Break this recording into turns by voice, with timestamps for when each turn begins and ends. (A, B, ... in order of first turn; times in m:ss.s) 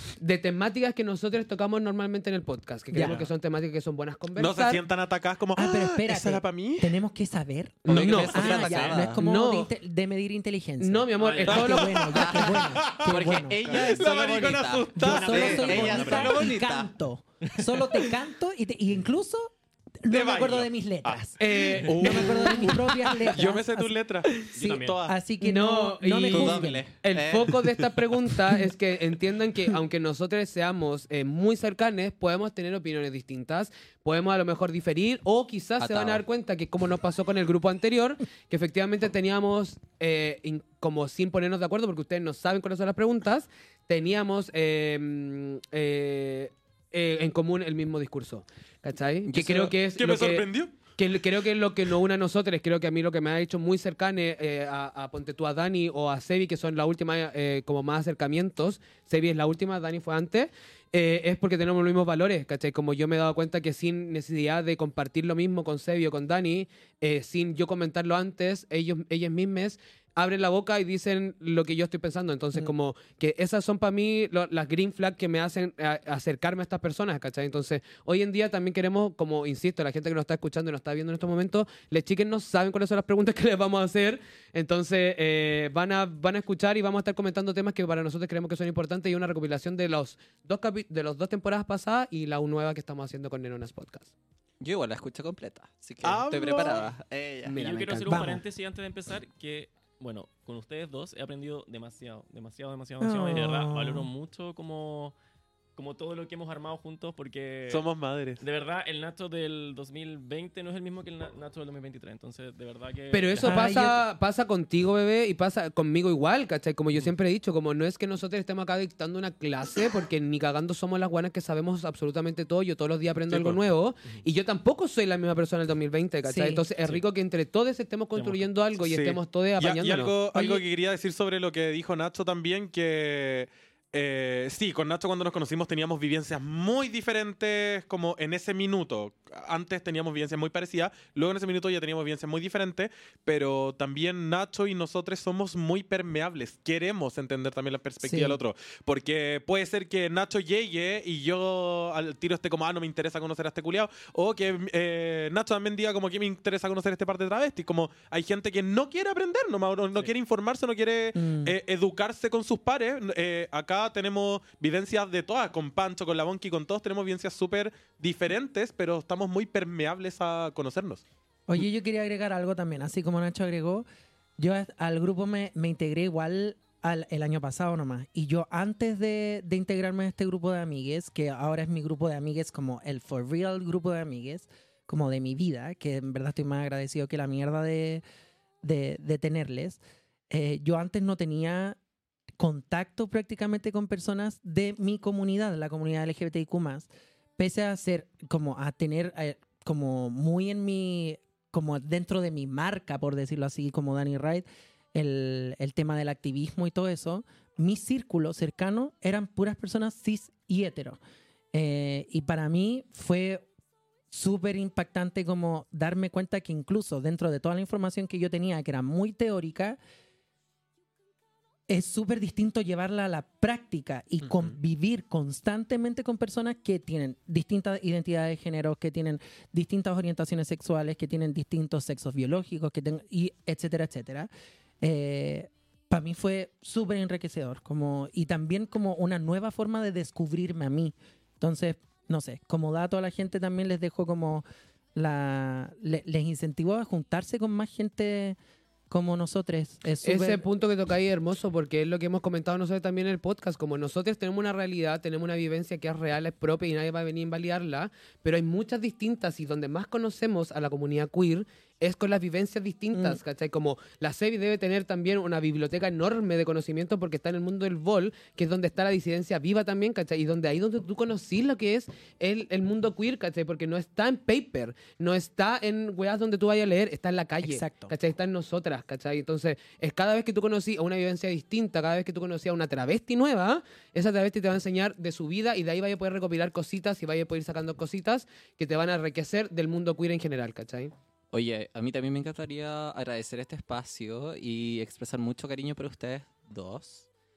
0:00.2-0:04.8 A
0:02.9-0:03.2 B
0:04.4-0:06.9 C
0:05.6-0:13.7 B
0:07.8-0:09.7 A
0:07.9-0:09.2 D
0:10.8-0:12.0 A
0:11.2-0:12.0 E
0:11.5-0:16.2 C
0:12.1-0:16.9 D
0:15.0-0:23.9 B
0:15.0-0:16.5 E
0:17.4-0:18.0 E
0:20.1-0:21.2 C
0:21.4-0:22.7 A
0:21.7-0:22.1 E
0:21.8-0:25.2 C
0:24.5-0:25.0 E
0:25.0-0:26.8 B
0:25.4-1:34.1 A
0:26.2-0:27.7 D
0:35.8-0:36.2 D
0:49.3-0:49.7 D
0:49.9-0:50.8 C
1:34.6-1:37.7 D
1:36.0-1:36.9 C
1:37.4-1:38.4 A
1:37.6-1:45.1 E
1:38.1-1:38.4 B
1:43.0-1:44.1 B
1:45.8-1:47.8 E
1:47.7-1:48.4 C
1:48.4-1:53.7 E
1:53.1-2:10.2 A
1:53.4-1:54.0 B
2:03.3-2:03.6 C
2:06.2-2:06.6 B
2:08.2-2:08.5 E
2:08.8-2:51.0 C
2:10.3-2:10.6 B
2:28.0-2:28.4 B
2:41.1-2:41.6 B
2:51.5-2:53.8 B
2:54.4-3:08.0 B
3:08.6-3:11.8 B
3:12.4-3:31.0 B
3:31.5-3:33.4 B
3:34.1-3:39.8 B
3:41.7-3:54.3 B
3:44.2-3:44.6 C
3:54.8-4:08.4 B
4:08.9-4:10.4 B
4:10.0-4:50.9 A
4:22.9-4:23.2 B
4:37.4-4:37.9 B
4:51.3-4:57.1 D